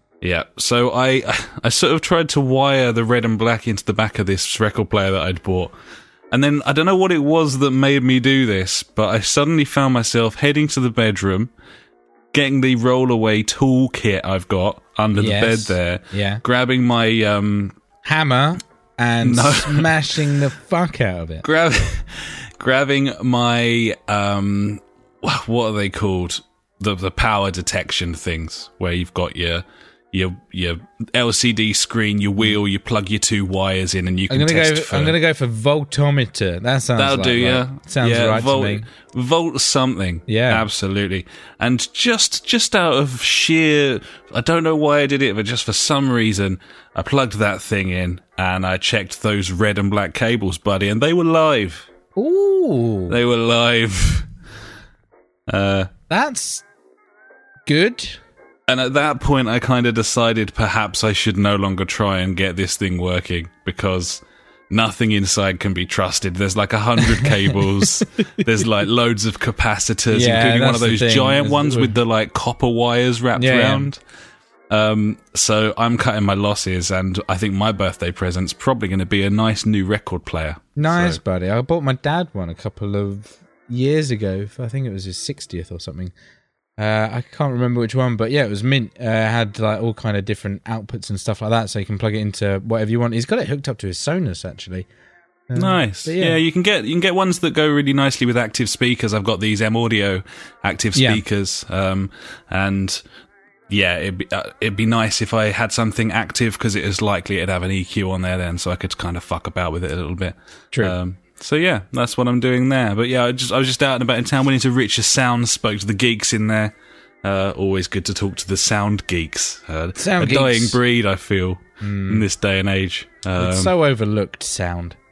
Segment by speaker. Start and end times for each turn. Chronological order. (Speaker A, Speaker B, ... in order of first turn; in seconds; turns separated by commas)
Speaker A: 0.2-5.7, Speaker A: 6.3-11.5, Speaker A: 12.3-17.8, Speaker B: 15.2-16.4, Speaker B: 18.0-21.4, Speaker A: 19.2-20.2, Speaker A: 21.4-35.2, Speaker B: 34.3-38.9, Speaker A: 37.0-51.9, Speaker B: 40.3-40.7, Speaker B: 52.2-53.2, Speaker A: 53.1-54.3, Speaker A: 55.5-55.9, Speaker B: 56.1-56.6, Speaker B: 57.7-58.2, Speaker A: 58.7-74.0, Speaker B: 67.2-68.0, Speaker B: 70.1-72.0, Speaker B: 73.4-73.9, Speaker A: 74.7-81.2, Speaker B: 80.8-86.1, Speaker B: 86.8-94.9, Speaker B: 95.5-96.4, Speaker A: 95.5-103.0, Speaker B: 101.0-101.2, Speaker A: 103.7-123.7, Speaker B: 120.0-120.8, Speaker B: 121.8-122.3, Speaker B: 123.4-125.0